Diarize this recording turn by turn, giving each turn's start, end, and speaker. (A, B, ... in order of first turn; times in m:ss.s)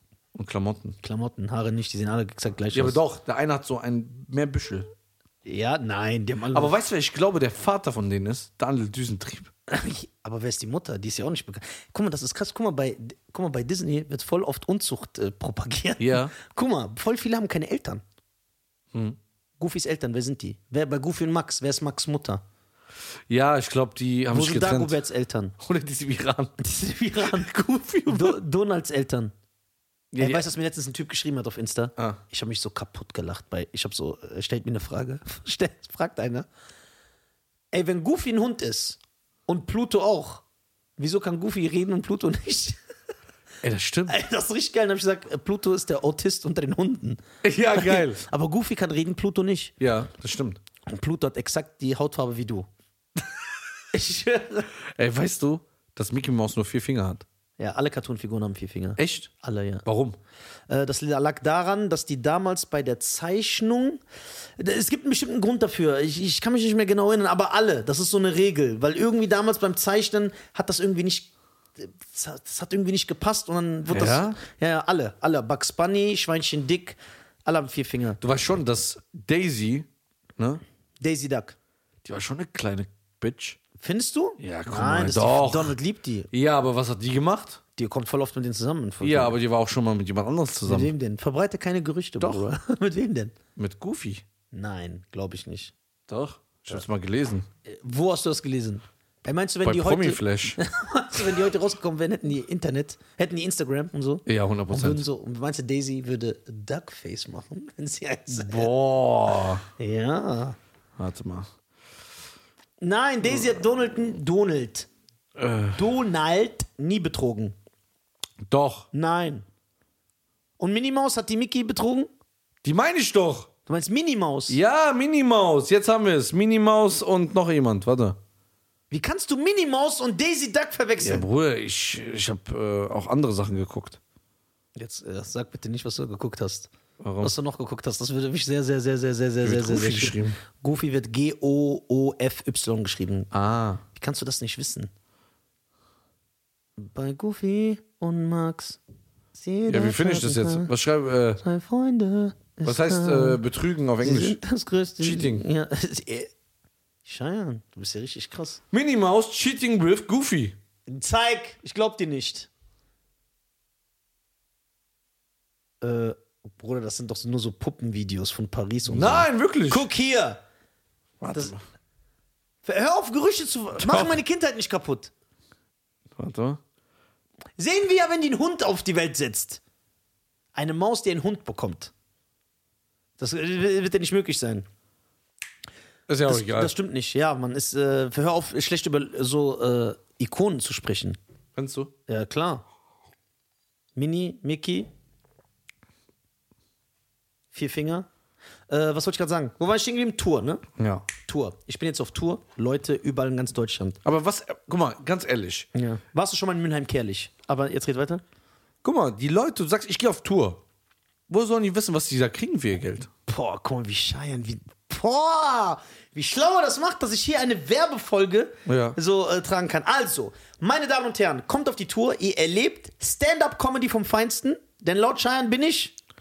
0:00.3-0:01.0 A
0:01.0-0:03.0 B
0:02.7-0:04.9 A
0:05.4-0:06.8 B
0:06.5-0:09.5 A
0:09.7-0:18.0 B
0:16.0-0:16.3 A
0:18.9-0:19.2 A
0:19.6-0:22.4 B
0:23.3-0:25.0 A
0:24.3-0:25.5 B
0:25.6-0:26.5 A
0:26.6-0:27.5 B
0:27.2-0:28.4 A
0:28.0-0:29.3 B
0:30.1-0:30.5 A
0:30.2-0:36.4 B
0:37.7-0:40.4 B
0:41.0-0:42.8 B
0:43.6-0:44.2 A
0:44.1-0:49.7 B
0:47.4-0:48.2 A
0:49.8-0:50.6 A
0:50.8-0:52.7 B
0:53.9-0:54.7 B
0:54.8-0:57.2 A
0:57.6-0:59.8 B
0:59.0-0:59.3 A
0:59.8-1:00.2 A
1:00.7-1:04.0 B
1:04.6-1:18.2 B
1:13.9-1:14.4 A
1:18.2-1:20.6 A
1:21.0-1:21.6 B
1:22.0-1:23.6 A
1:23.8-1:26.3 B
1:24.4-1:25.7 A
1:26.3-1:27.6 A
1:27.8-1:29.4 B
1:29.0-1:30.9 A
1:30.6-1:33.3 B
1:32.2-1:32.4 A
1:33.6-1:34.2 A
1:34.5-1:35.7 B
1:36.1-1:37.4 A
1:37.6-1:48.7 B
1:39.6-1:40.6 A
1:44.2-1:45.0 A
1:48.3-1:49.6 A
1:49.8-1:50.6 B
1:51.0-1:51.5 A
1:52.8-1:54.9 B
1:55.4-1:55.9 A
1:55.7-1:57.6 B
1:58.4-1:58.9 A
1:58.9-1:59.4 B
2:00.6-2:02.1 B
2:02.6-2:03.5 A
2:03.7-2:04.6 B
2:04.5-2:08.2 A
2:08.9-2:11.2 B
2:11.0-2:14.0 A
2:14.8-2:16.7 B
2:17.0-2:17.3 A
2:17.2-2:23.3 B
2:19.4-2:20.4 A
2:23.3-2:23.8 A
2:23.9-2:24.9 B
2:26.8-2:28.8 B
2:29.3-2:30.7 B
2:29.7-2:31.4 A
2:31.4-2:33.4 B
2:32.6-2:34.4 A
2:34.0-2:36.3 B
2:35.0-2:35.4 A
2:37.0-2:38.6 B
2:38.7-2:40.6 A
2:40.9-2:42.5 B
2:45.8-2:50.4 B
2:48.8-2:49.8 A
2:51.2-2:51.6 A
2:52.6-2:55.1 B
2:53.8-2:54.2 A
2:56.2-2:56.6 A
2:57.6-2:59.6 B
3:00.5-3:01.9 B
3:03.2-3:04.6 B
3:06.1-3:06.7 A
3:06.3-3:11.2 B
3:11.6-3:11.9 A
3:12.1-3:12.6 B
3:14.0-3:14.9 B
3:17.5-3:18.1 B
3:18.7-3:20.6 B
3:20.8-3:21.1 A
3:21.2-3:24.0 B
3:24.0-3:25.7 A
3:25.7-3:28.2 B
3:28.8-3:30.6 A
3:31.3-3:33.1 A
3:33.3-3:45.9 B
3:38.6-3:39.0 A